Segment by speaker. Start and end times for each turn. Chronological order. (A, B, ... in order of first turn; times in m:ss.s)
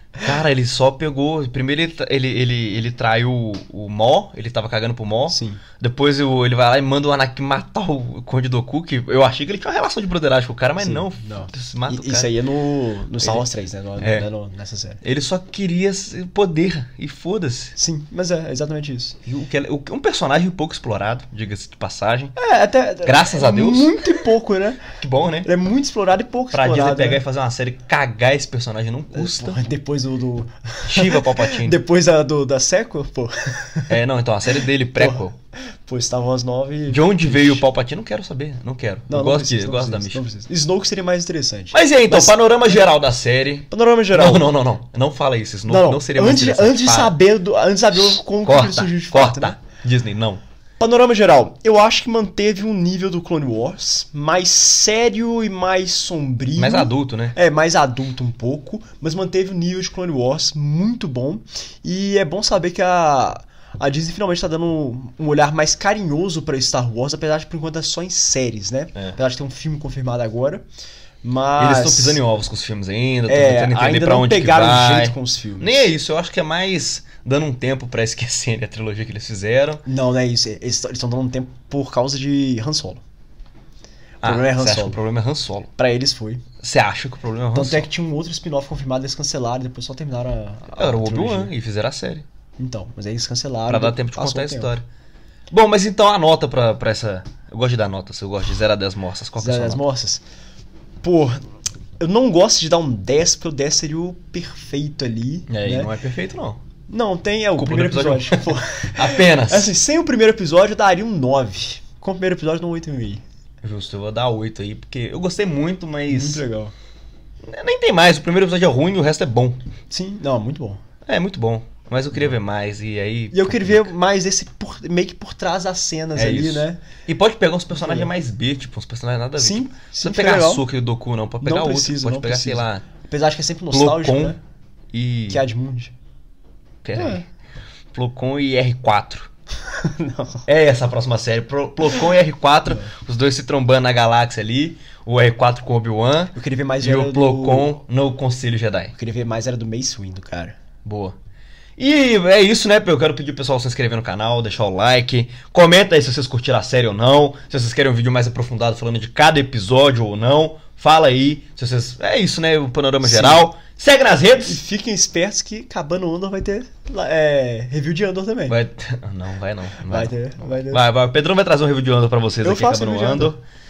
0:00.2-0:12.3 A
0:05.3-0:05.6 B
0:10.8-0:15.0 B
0:14.0-0:14.2 A
0:15.0-0:17.8 A
0:17.8-0:19.2 B
0:19.2-0:22.3 A
0:22.4-0:24.8 B
0:23.0-0:24.2 A
0:25.0-0:25.5 A
0:25.4-0:27.2 B
0:26.5-0:29.6 A
0:29.1-0:33.9 B
0:30.8-0:31.8 A
0:33.9-0:35.3 A
0:35.0-0:35.2 B
0:35.9-0:37.6 B
0:36.9-0:40.2 A
0:39.1-0:42.8 B
0:41.7-0:47.1 A
0:43.7-0:44.5 B
0:45.7-0:49.6 B
0:48.0-0:50.4 A
0:50.8-1:10.6 B
0:56.6-0:57.3 A
1:11.2-1:12.2 B
1:11.6-1:19.8 A
1:13.3-1:15.9 B
1:19.8-1:23.0 B
1:24.2-1:25.0 B
1:24.2-1:25.7 A
1:25.8-1:26.4 B
1:26.6-1:27.9 A
1:27.5-1:31.5 B
1:30.8-1:32.2 A
1:32.6-1:34.7 B
1:33.7-1:34.8 A
1:35.5-1:39.8 A
1:39.4-1:40.2 B
1:41.0-1:41.4 B
1:42.0-1:45.9 B
1:45.5-1:46.6 A
1:46.9-1:53.2 B
1:47.6-1:49.7 A
1:53.6-1:56.4 A
1:56.1-1:56.7 B
1:57.4-1:59.6 A
1:59.9-2:00.8 B
2:01.1-2:03.9 A
2:03.3-2:06.8 B
2:06.2-2:12.8 A
2:07.7-2:08.1 B
2:09.4-2:10.6 B
2:11.4-2:14.4 B
2:13.7-2:14.4 A
2:14.9-2:15.4 A
2:15.3-2:15.9 B
2:16.8-2:17.2 A
2:17.0-2:17.2 B
2:17.9-2:19.3 A
2:19.7-2:20.4 B
2:20.5-2:28.9 A
2:26.3-2:27.8 B
2:28.9-2:30.6 B
2:30.8-2:31.1 A
2:31.8-2:44.6 A
2:43.0-2:43.4 B
2:44.4-2:48.6 B
2:48.5-2:50.1 A
2:49.8-2:50.8 B
2:50.7-2:53.4 A
2:52.4-2:53.3 B